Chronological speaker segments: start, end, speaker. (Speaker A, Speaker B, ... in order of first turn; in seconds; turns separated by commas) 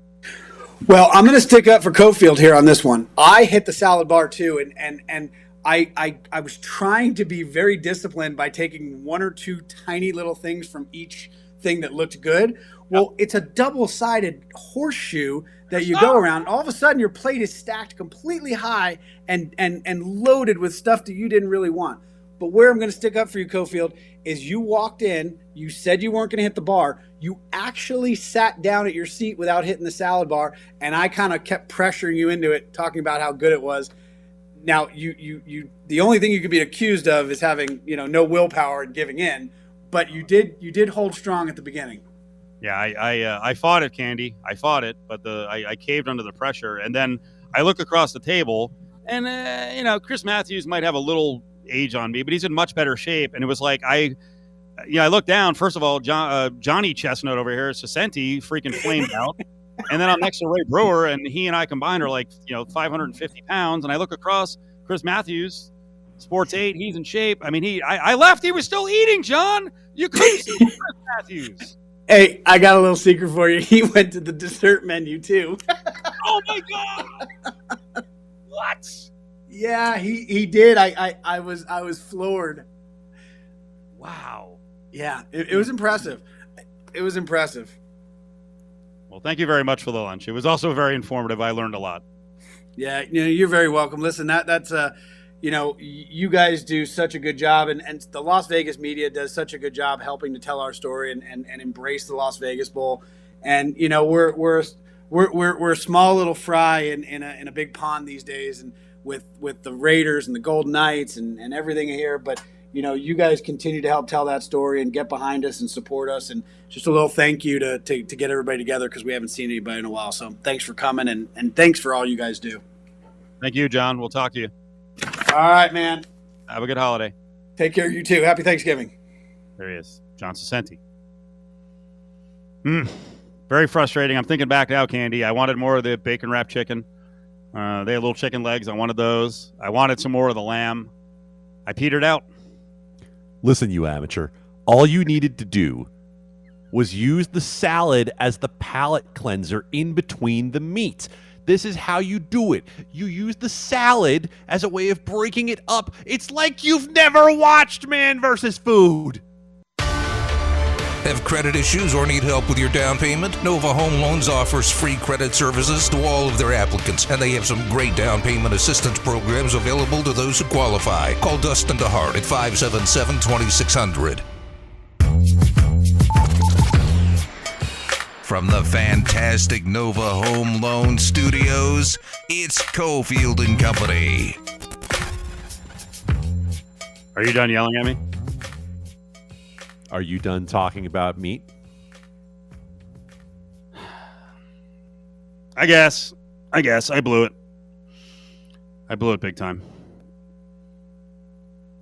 Speaker A: 0.9-33.9, Speaker B: 15.9-16.2, Speaker A: 34.6-42.0, Speaker B: 42.6-54.1, Speaker B: 54.8-71.7, Speaker A: 72.1-76.1, Speaker B: 76.2-77.2, Speaker B: 78.5-79.1, Speaker A: 79.5-82.7, Speaker B: 84.0-84.6, Speaker A: 84.9-86.2, Speaker A: 86.9-87.8, Speaker B: 89.1-92.0, Speaker A: 92.8-122.6, Speaker B: 123.4-124.5, Speaker A: 125.2-126.0, Speaker B: 126.5-127.1, Speaker A: 127.6-128.9, Speaker B: 129.6-130.8, Speaker B: 132.6-136.8, Speaker B: 137.5-140.9, Speaker B: 141.7-142.2, Speaker C: 143.4-145.9, Speaker C: 146.7-159.2, Speaker D: 161.0-174.2, Speaker D: 178.2-184.4, Speaker B: 187.1-188.0, Speaker C: 189.9-191.4, Speaker B: 195.6-197.3, Speaker B: 198.9-199.6